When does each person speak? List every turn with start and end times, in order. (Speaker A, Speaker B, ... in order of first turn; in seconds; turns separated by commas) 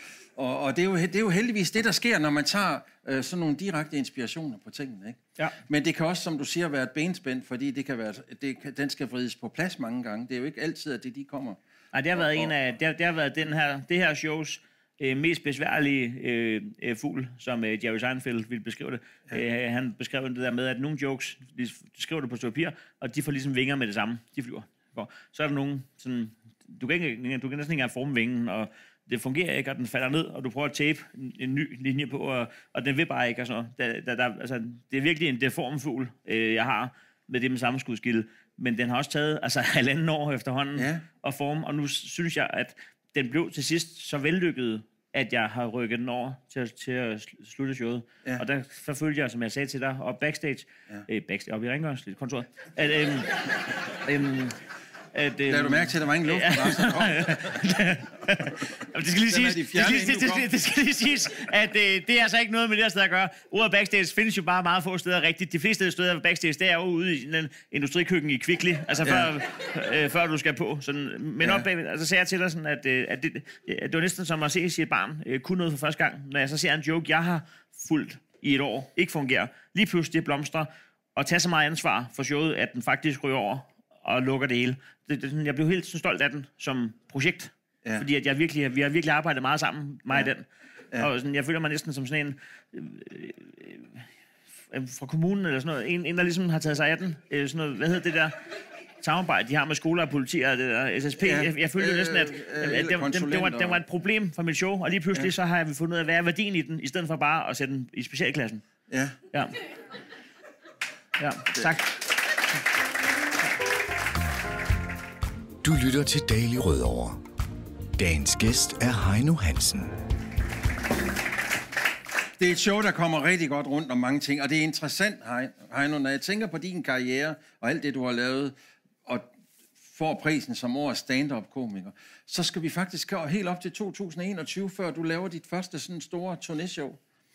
Speaker A: 0.3-11.6, Speaker B: 11.9-53.5, Speaker A: 12.2-12.5, Speaker A: 40.8-41.0, Speaker B: 54.0-54.6, Speaker B: 55.1-94.1, Speaker A: 55.5-57.6, Speaker A: 59.3-60.5, Speaker A: 69.0-69.3, Speaker A: 71.4-71.7, Speaker B: 94.7-98.4, Speaker B: 99.0-108.6, Speaker A: 101.2-103.8, Speaker A: 108.9-109.2, Speaker B: 111.2-112.0, Speaker C: 115.6-117.2, Speaker C: 118.0-119.9, Speaker A: 122.4-128.5, Speaker A: 129.1-137.0